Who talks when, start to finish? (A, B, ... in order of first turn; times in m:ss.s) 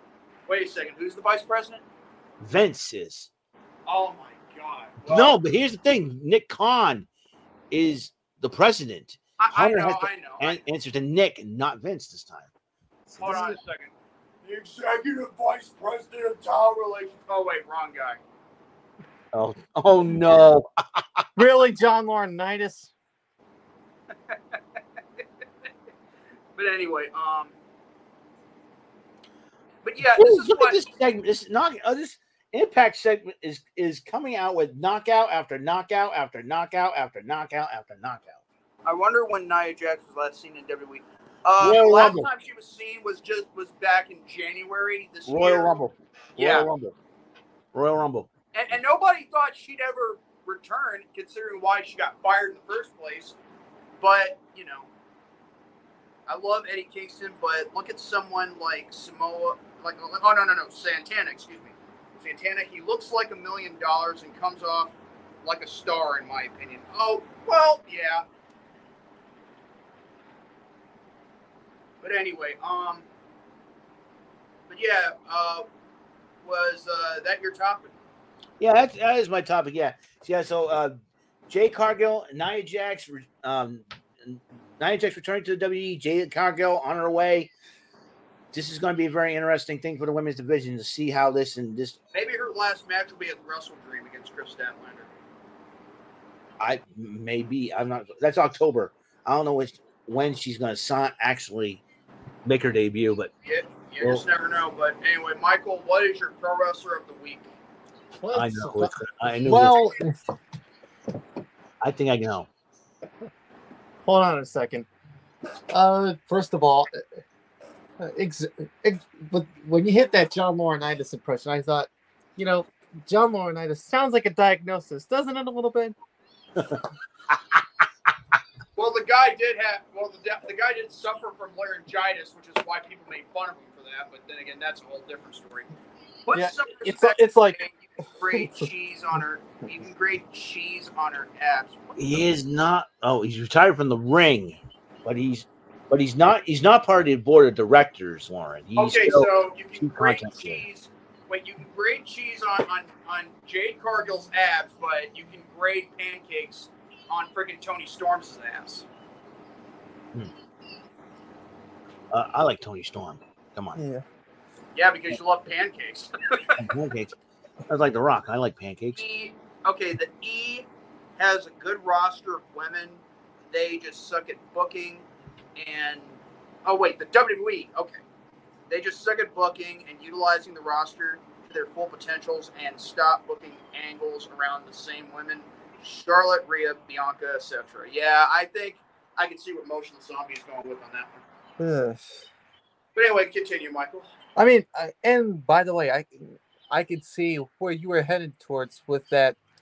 0:00.5-0:01.8 A
0:02.4-0:03.3 B
0:03.9-0:05.4 A
0:05.1-0:07.1 B
0:07.7-0:12.5 B
0:09.4-0:10.6 A
0:13.1-0:13.6 B
0:13.2-0:13.9 A
0:14.4-0:18.2 A
0:19.3-0:21.2 B
0:21.4-0:22.9 C
0:24.3-0:24.6 A
0:26.6-0:27.5 A
0:29.8-0:30.9 A
0:30.1-0:38.4 B
0:38.8-0:45.8 A
0:41.6-0:42.3 B
0:45.3-0:47.0 B
0:46.4-0:46.7 A
0:47.7-0:48.3 B
0:48.5-0:53.4 A
0:54.0-0:54.9 A
0:56.3-1:08.2 A
1:12.0-1:13.1 A
1:14.7-1:15.6 A
1:16.4-1:17.9 A
1:18.6-1:20.9 B
1:21.5-1:27.5 B
1:28.5-1:32.0 B
1:32.1-1:35.1 A
1:36.6-1:41.8 B
1:42.4-1:43.3 B
1:43.4-1:47.5 A
1:48.2-1:50.2 C
1:48.3-1:49.8 B
1:51.8-1:52.5 B
1:54.1-1:54.9 C
1:55.7-1:57.0 C
1:58.0-2:06.0 C
2:06.6-2:06.8 B
2:08.8-2:15.7 A
2:16.3-2:22.2 A
2:16.3-2:17.6 C
2:18.4-2:18.6 C
2:22.0-2:30.6 B
2:28.8-2:38.9 A
2:42.1-2:43.8 B
2:43.8-2:44.0 C
2:44.8-2:46.7 A
2:46.6-2:47.2 B
2:47.7-2:49.0 B
2:49.0-2:50.7 A
2:51.2-2:55.0 A
2:55.6-2:58.0 A
2:58.7-3:11.2 A
3:11.6-3:12.2 C
3:13.0-3:14.1 A
3:14.4-3:19.4 C